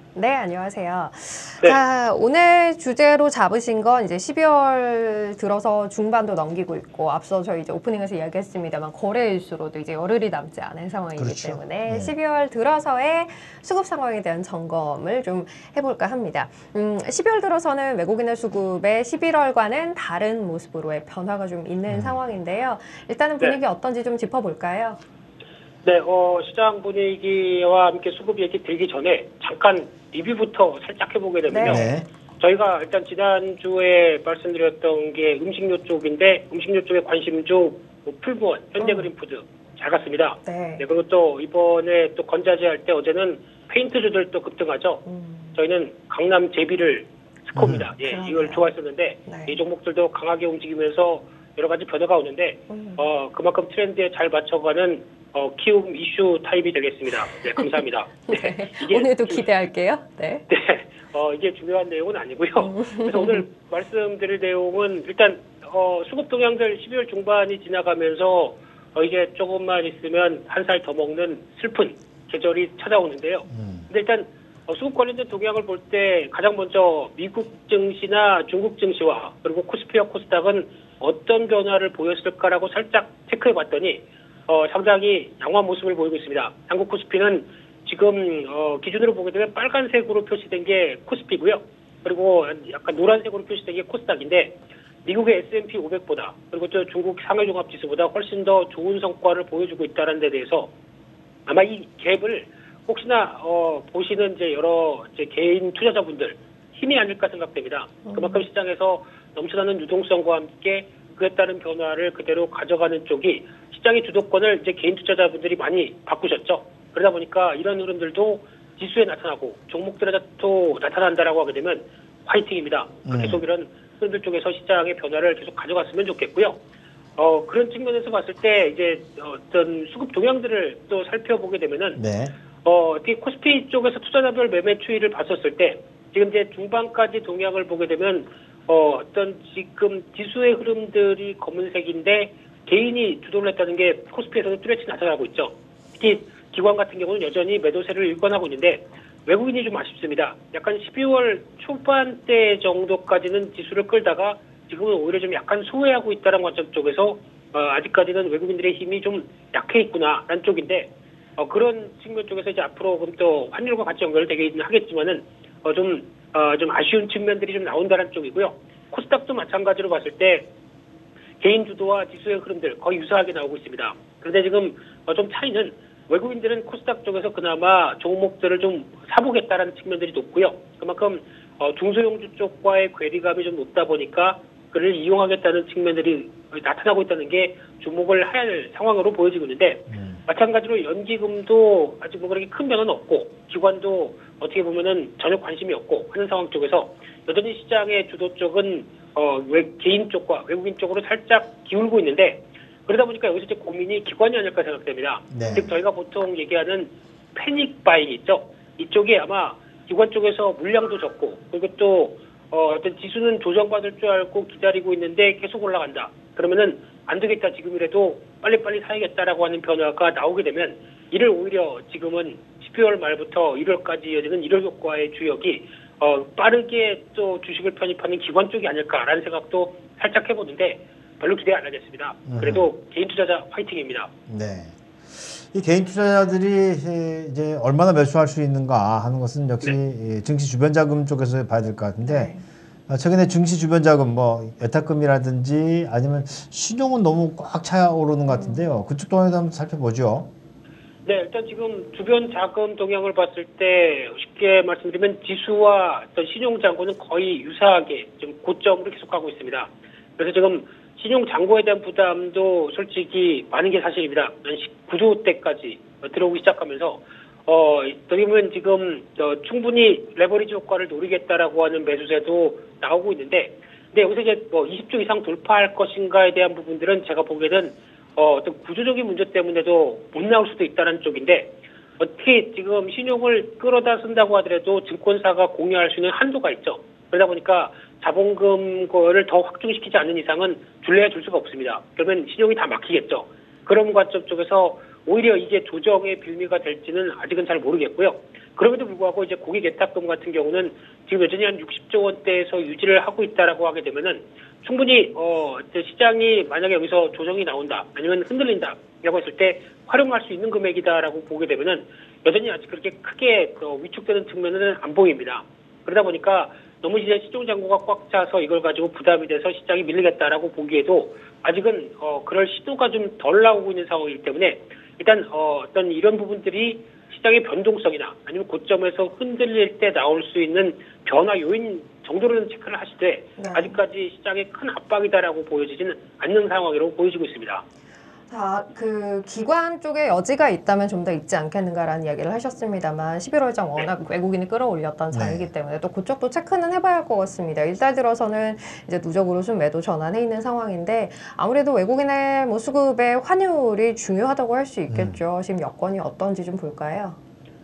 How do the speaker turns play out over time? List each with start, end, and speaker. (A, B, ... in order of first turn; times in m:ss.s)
0:00.1-0:25.0 A
0:11.2-0:12.1 B
0:21.9-0:22.2 B
0:25.8-0:59.4 C
0:31.5-0:31.9 A
0:31.6-0:32.1 B
0:38.8-0:39.1 A
0:40.4-0:40.8 A
0:45.0-0:45.6 A
0:47.6-0:47.9 B
0:48.0-0:48.6 A
0:49.3-0:49.6 A
0:52.7-0:53.0 A
0:58.2-1:00.5 A
1:00.5-1:40.7 C
1:02.7-1:03.4 A
1:13.5-1:13.9 B
1:41.5-2:06.6 C
1:48.0-1:48.4 A
2:03.1-2:03.4 B
2:07.2-2:12.0 C
2:11.9-2:12.3 B
2:12.6-2:50.5 C
2:51.4-3:54.1 C
3:09.9-3:10.2 B
3:25.3-3:25.7 B
3:52.2-3:52.7 B
3:54.3-4:02.4 B
4:02.0-4:02.4 A
4:02.9-4:10.3 B
4:08.3-4:08.7 A
4:11.0-5:37.6 C
5:33.4-5:33.8 A
5:38.3-5:57.2 A
5:45.1-5:45.5 B
5:54.9-5:55.2 B